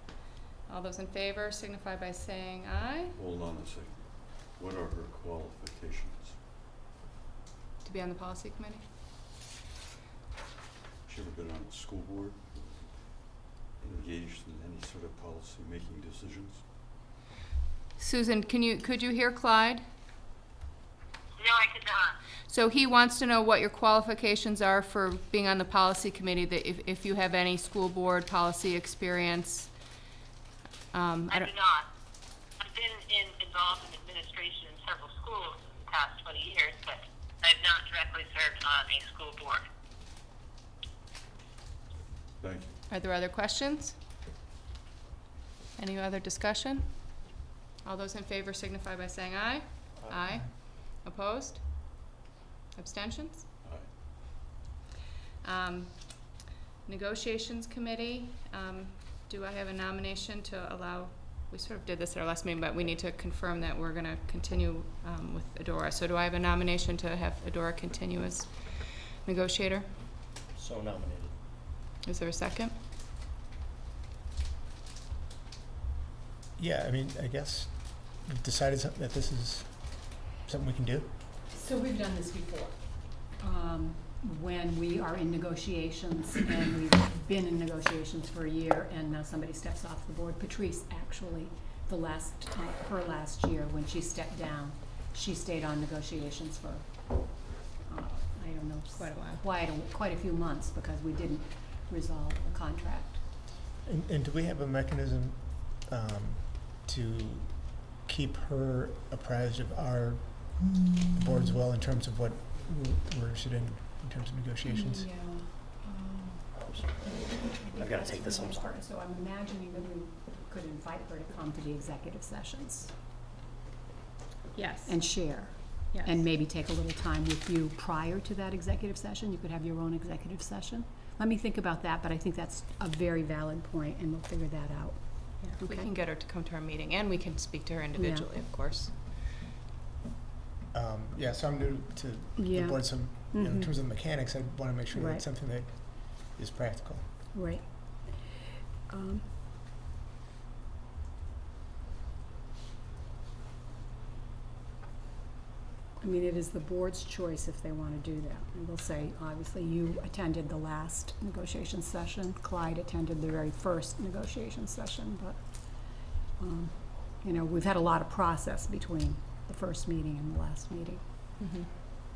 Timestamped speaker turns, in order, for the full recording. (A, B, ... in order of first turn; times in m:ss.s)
0:00.7-0:03.2 A
0:03.1-0:06.4 B
0:07.8-0:08.8 A
0:11.1-0:16.6 B
0:18.0-0:19.8 A
0:21.4-0:22.2 C
0:22.5-0:29.7 A
0:30.9-0:31.5 A
0:31.3-0:31.9 C
0:32.6-0:39.6 C
0:42.4-0:42.8 B
0:42.9-0:44.0 A
0:45.8-0:47.2 A
0:47.8-0:52.0 A
0:52.8-0:53.5 A
0:55.4-1:09.9 A
1:10.5-1:11.3 D
1:12.0-1:12.7 A
1:16.6-1:21.1 E
1:21.5-1:43.3 F
1:38.9-1:39.4 A
1:43.8-1:55.1 E
1:54.7-1:56.4 A
1:56.6-1:58.8 D
1:57.6-2:02.9 F
2:04.5-2:05.0 A
2:04.8-2:15.9 F
2:05.9-2:06.2 A
2:15.4-2:19.0 A
2:17.9-2:18.3 F
2:20.7-2:27.1 E
2:22.4-2:23.8 F
2:24.9-2:25.2 F
2:27.3-2:29.3 F
2:36.0-2:51.0 F
2:51.4-2:51.7 A